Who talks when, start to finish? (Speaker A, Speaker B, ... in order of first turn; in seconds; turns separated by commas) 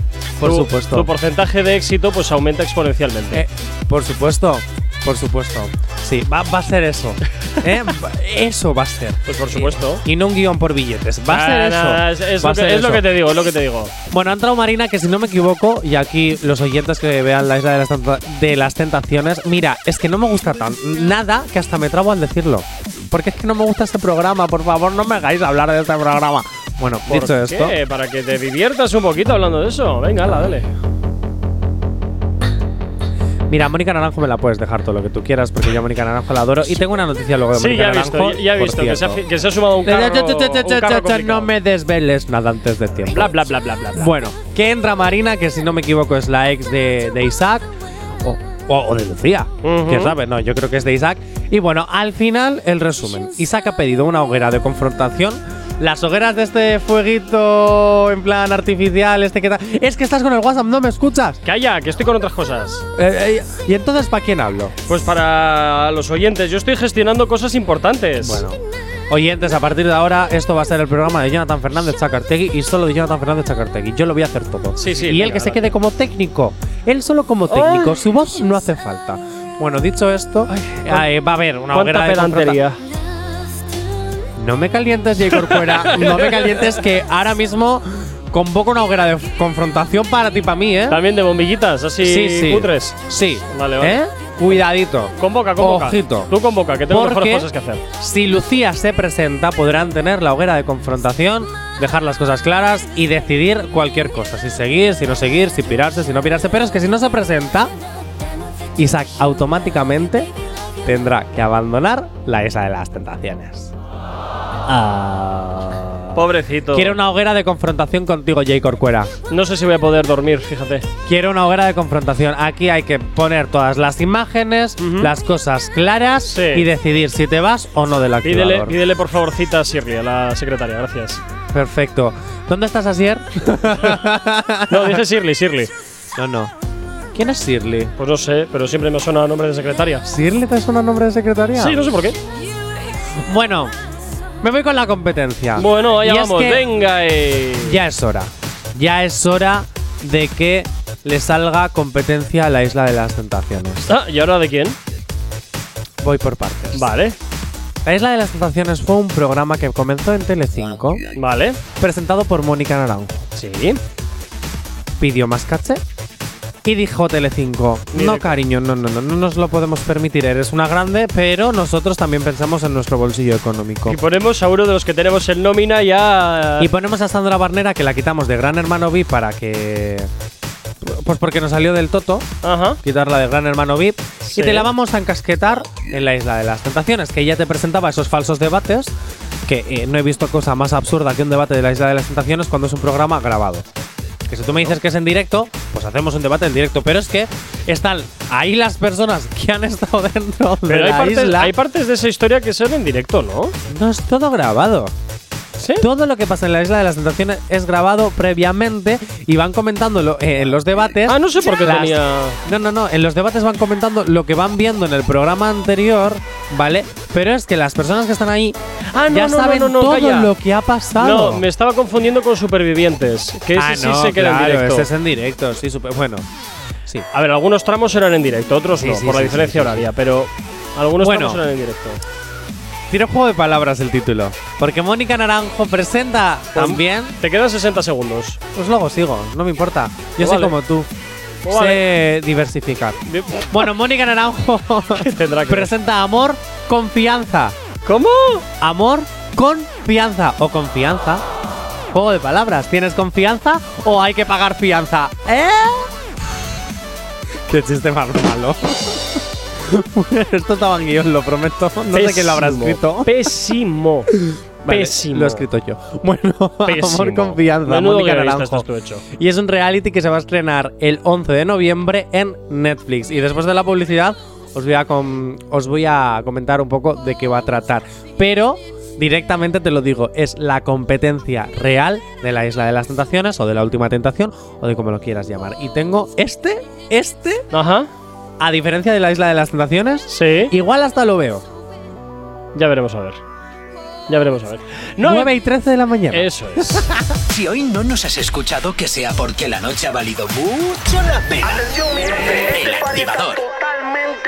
Speaker A: 0.4-1.1, Speaker B: 0.4-3.4, Speaker A: 3.3-13.0, Speaker B: 9.3-10.0, Speaker B: 11.3-13.9, Speaker A: 14.1-27.8, Speaker B: 27.1-30.6, Speaker A: 33.5-39.2, Speaker B: 37.5-41.5, Speaker A: 39.8-43.3, Speaker B: 43.1-44.1, Speaker A: 43.9-47.7, Speaker A: 48.2-61.4, Speaker B: 49.6-50.1, Speaker B: 61.4-62.8, Speaker A: 62.9-64.7, Speaker B: 64.9-68.4, Speaker A: 68.2-68.6, Speaker A: 69.1-82.6, Speaker B: 74.8-75.7, Speaker B: 77.5-77.9, Speaker B: 80.5-81.0, Speaker B: 81.7-82.8, Speaker A: 84.4-91.0, Speaker B: 85.5-86.5, Speaker B: 90.9-93.0, Speaker A: 92.0-96.3, Speaker B: 93.5-94.0, Speaker B: 95.2-97.8, Speaker A: 96.9-97.5, Speaker A: 98.0-107.7, Speaker A: 108.8-110.3, Speaker A: 110.8-113.7, Speaker A: 114.7-115.9, Speaker B: 116.1-116.9, Speaker A: 116.7-119.1, Speaker B: 119.3-120.9, Speaker A: 121.0-128.7, Speaker B: 124.8-125.1, Speaker B: 126.3-126.7, Speaker B: 128.2-131.2, Speaker A: 131.5-135.0, Speaker B: 134.7-135.7, Speaker A: 136.1-136.5, Speaker A: 137.1-137.9, Speaker B: 138.0-140.1, Speaker A: 140.1-141.8, Speaker B: 141.6-142.2, Speaker A: 143.2-143.7, Speaker A: 144.4-146.6, Speaker B: 145.6-147.7, Speaker A: 147.7-153.8, Speaker B: 153.9-154.8, Speaker A: 156.0-156.9, Speaker B: 156.7-157.1, Speaker A: 157.8-161.0, Speaker B: 161.2-161.6, Speaker A: 161.8-163.2, Speaker B: 163.3-163.8, Speaker A: 165.0-165.8, Speaker A: 166.6-174.0, Speaker B: 167.9-168.3, Speaker B: 173.9-176.7, Speaker A: 176.6-180.1, Speaker A: 180.8-182.3, Speaker B: 182.4-182.8, Speaker A: 182.8-188.9, Speaker B: 184.2-184.7, Speaker A: 189.4-193.6, Speaker A: 194.3-201.5, Speaker B: 200.7-203.5, Speaker A: 203.7-204.9, Speaker B: 205.6-205.8, Speaker A: 205.8-218.6, Speaker B: 211.1-212.4, Speaker B: 218.9-220.3, Speaker A: 219.1-221.4, Speaker B: 221.0-224.9, Speaker A: 223.5-226.2, Speaker B: 227.1-232.0, Speaker A: 228.8-229.9, Speaker A: 231.0-231.4, Speaker A: 232.9-237.1, Speaker B: 236.5-238.4, Speaker A: 238.5-240.9, Speaker B: 240.2-240.5, Speaker B: 241.4-241.8, Speaker A: 241.5-243.0, Speaker B: 243.1-243.7, Speaker A: 243.5-247.5, Speaker B: 245.0-245.7, Speaker B: 247.8-248.4, Speaker A: 248.6-251.2, Speaker A: 251.9-255.9, Speaker A: 257.5-263.1, Speaker B: 261.9-264.1, Speaker A: 264.2-287.4, Speaker B: 264.7-265.4, Speaker B: 266.6-269.0, Speaker B: 287.5-287.9, Speaker A: 288.4-291.4, Speaker B: 290.1-290.5, Speaker B: 292.5-293.2, Speaker B: 294.1-295.3, Speaker A: 295.0-297.1, Speaker B: 296.1-296.9, Speaker C: 297.3-303.4